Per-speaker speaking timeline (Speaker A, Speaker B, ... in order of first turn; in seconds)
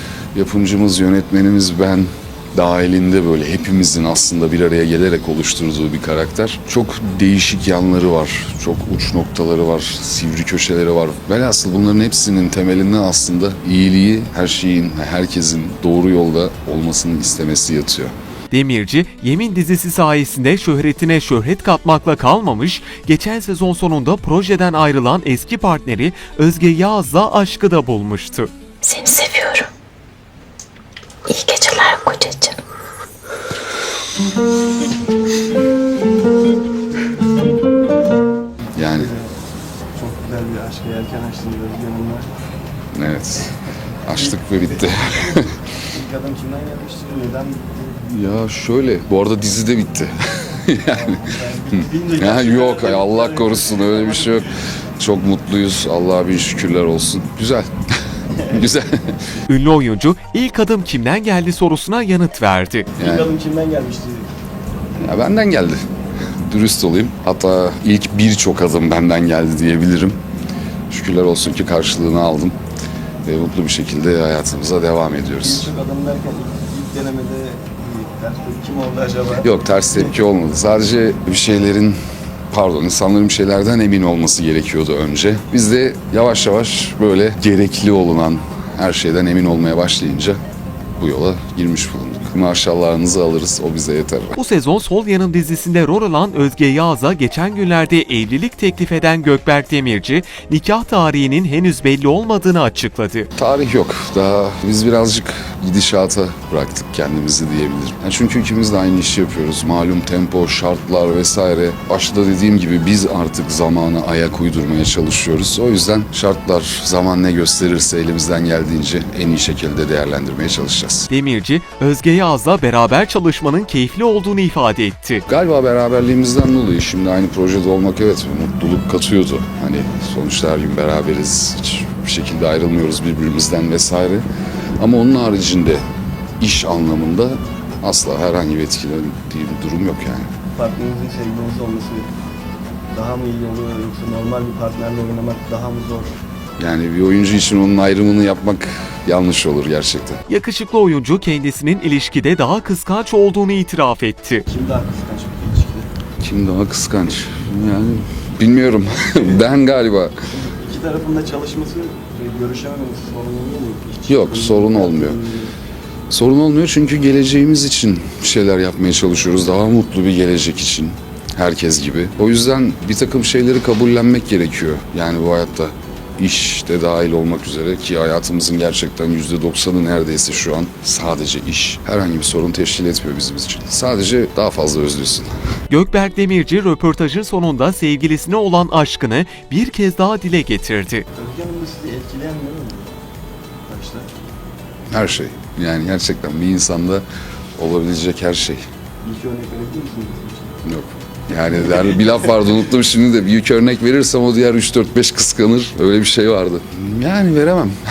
Speaker A: 0.3-18.1, 38.7-39.1, 42.9-45.5, 48.1-51.2, 51.7-57.7, 58.5-59.2, 63.0-63.3, 65.0-65.8, 66.4-70.2, 70.9-72.5, 73.2-75.7, 79.4-82.0, 82.5-90.4, 91.0-94.4, 103.3-121.1, 125.3-134.2, 134.8-135.8, 136.4-140.3, 146.6-150.2, 156.2-160.1, 164.1-165.2, 166.1-185.3, 194.9-197.0, 197.6-198.6, 200.6-207.8
Speaker B: 18.5-28.5, 59.5-62.9, 94.3-103.3, 121.1-125.2, 150.3-154.4, 185.7-191.0
Speaker C: 28.8-29.7, 31.2-32.6
Speaker D: 38.8-39.3, 40.0-42.3, 44.1-48.3, 50.7-54.5, 58.3-58.7, 62.9-64.3, 75.3-80.1, 140.5-142.1, 142.9-146.2, 154.4-155.9, 160.3-165.5, 191.1-192.9, 193.7-194.1, 199.0-200.6